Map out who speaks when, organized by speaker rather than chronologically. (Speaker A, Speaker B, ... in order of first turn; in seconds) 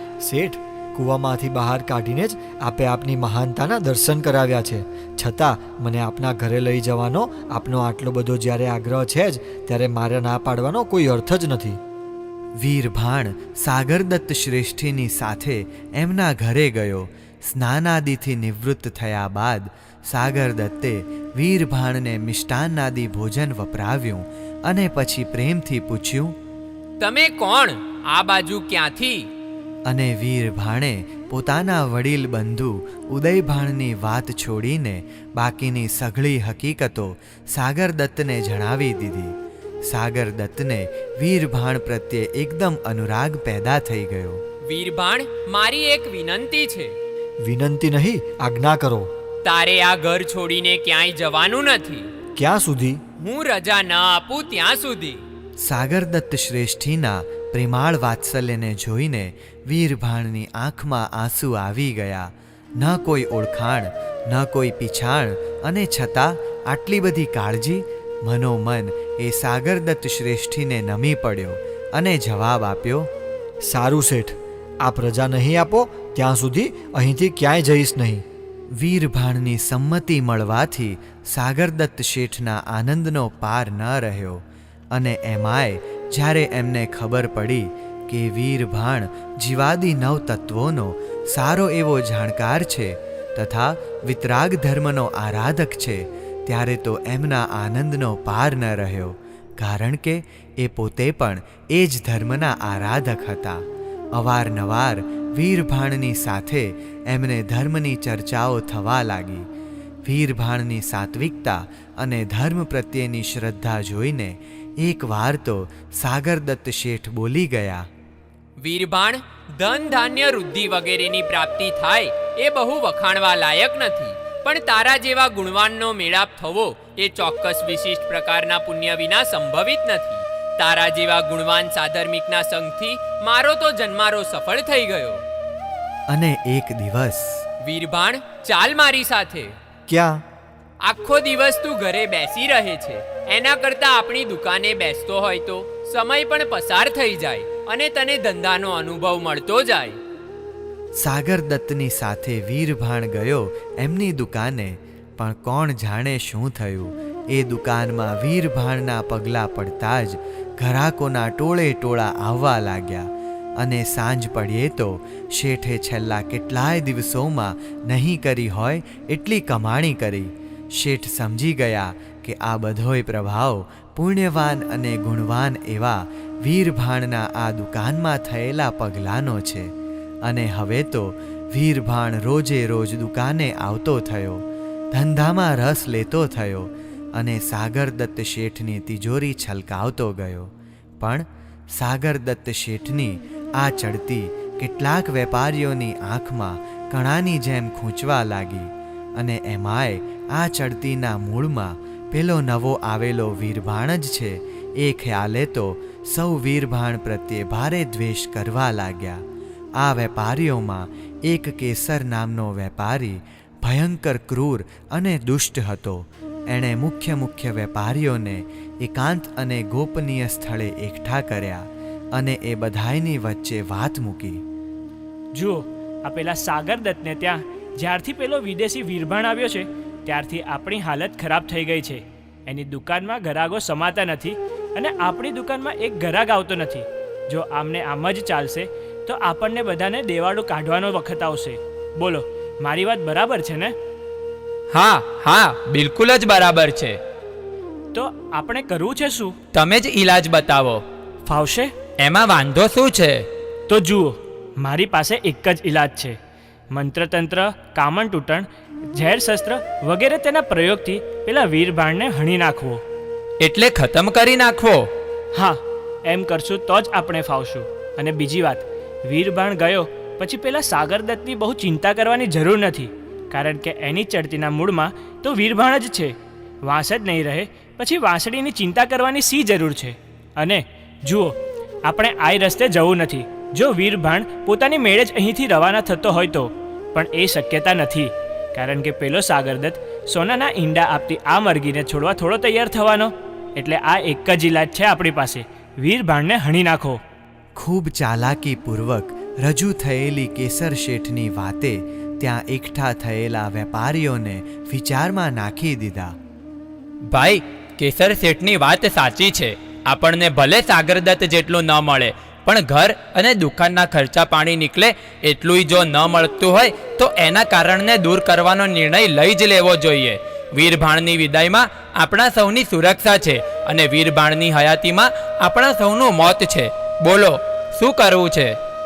Speaker A: 0.2-11.8, 47.4-49.1, 52.4-53.0, 73.6-78.2, 139.9-140.2
Speaker B: 12.6-26.3, 29.9-39.4, 39.9-44.4, 55.6-73.1, 78.8-103.6, 104.1-109.5, 110.0-117.8, 136.1-137.4, 151.0-179.7, 180.2-209.2, 209.8-224.4, 297.6-306.1
Speaker C: 27.0-29.3, 44.7-46.9, 49.4-52.1, 53.2-55.2, 118.6-135.2, 137.6-139.5, 140.8-150.0
Speaker D: 225.3-243.7, 247.9-249.3, 251.2-251.7, 253.7-256.2, 256.7-262.8, 265.3-297.0
Speaker E: 244.7-247.0, 249.5-250.8, 252.0-253.2, 263.4-264.9, 307.1-328.6